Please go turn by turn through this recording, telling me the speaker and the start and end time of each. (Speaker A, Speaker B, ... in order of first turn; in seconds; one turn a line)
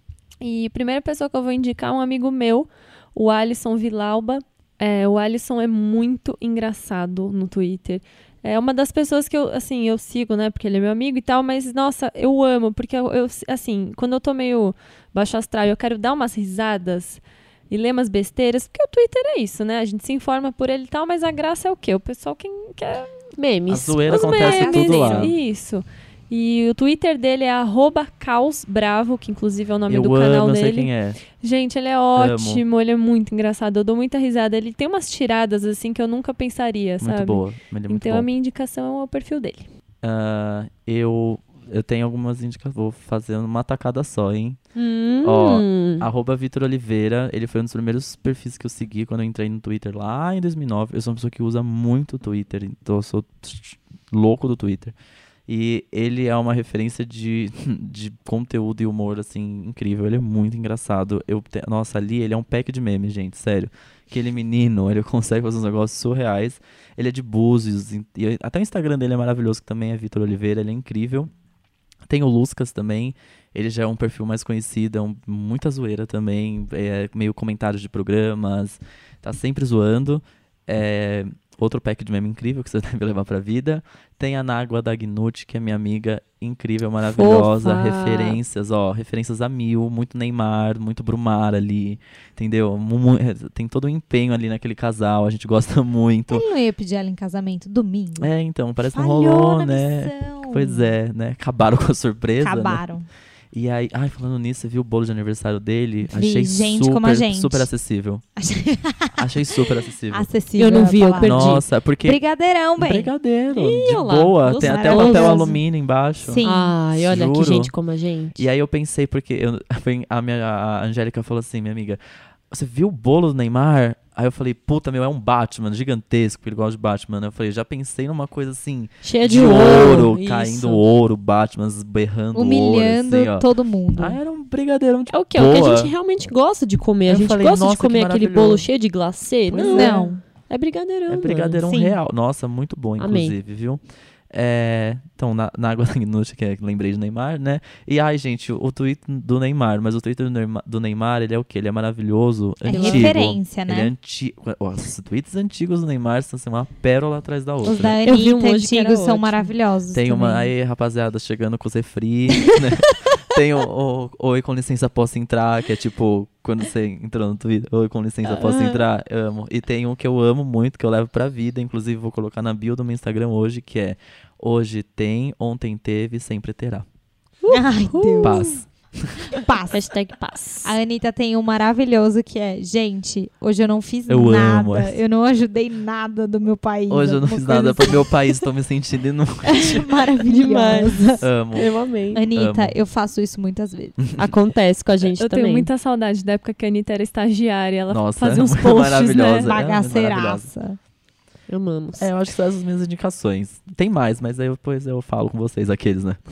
Speaker A: 0.4-23.2
Speaker B: 23.4-24.8
Speaker C: 23.7-25.4
Speaker A: 24.1-39.7
Speaker D: 24.3-25.3
Speaker C: 29.9-31.2
Speaker C: 32.1-32.6
Speaker C: 37.0-38.3
Speaker C: 40.0-44.6
Speaker B: 44.8-46.1
Speaker C: 45.2-55.0
Speaker C: 55.5-71.3
Speaker C: 72.1-96.5
Speaker B: 87.1-88.4
Speaker D: 96.3-98.3
Speaker C: 98.2-102.8
Speaker D: 98.9-100.9
Speaker D: 102.4-103.1
Speaker C: 103.5-108.2
Speaker D: 106.1-107.7
Speaker D: 108.4-109.3
Speaker C: 109.1-110.3
Speaker D: 110.1-113.1
Speaker B: 110.6-111.7
Speaker C: 111.2-112.2
Speaker C: 112.8-117.7
Speaker B: 113.5-115.6
Speaker D: 114.6-115.6
Speaker D: 116.2-116.8
Speaker B: 116.4-118.5
Speaker C: 118.4-122.0
Speaker C: 122.5-135.9
Speaker B: 129.0-130.8
Speaker D: 132.3-134.2
Speaker B: 135.1-141.6
Speaker C: 137.1-138.7
Speaker C: 139.5-140.1
Speaker D: 139.7-140.2
Speaker C: 141.1-143.8
Speaker D: 141.7-142.0
Speaker B: 143.0-143.4
Speaker C: 144.3-158.0
Speaker D: 152.7-153.9
Speaker B: 152.7-153.2
Speaker D: 157.6-160.5
Speaker B: 158.0-159.5
Speaker C: 159.9-176.9
Speaker B: 168.2-168.8
Speaker B: 177.4-178.5
Speaker D: 177.5-178.5
Speaker C: 178.2-179.3
Speaker D: 179.2-179.8
Speaker B: 179.7-180.8
Speaker D: 180.6-188.4
Speaker C: 184.1-185.0
Speaker C: 186.9-189.9
Speaker D: 189.5-191.3
Speaker B: 190.2-192.2
Speaker C: 191.2-191.7
Speaker D: 192.2-194.2
Speaker C: 192.3-192.8
Speaker B: 194.2-195.7
Speaker A: 195.2-199.5
Speaker C: 197.9-200.6
Speaker D: 199.4-200.8
Speaker B: 201.5-202.1
Speaker C: 202.0-206.2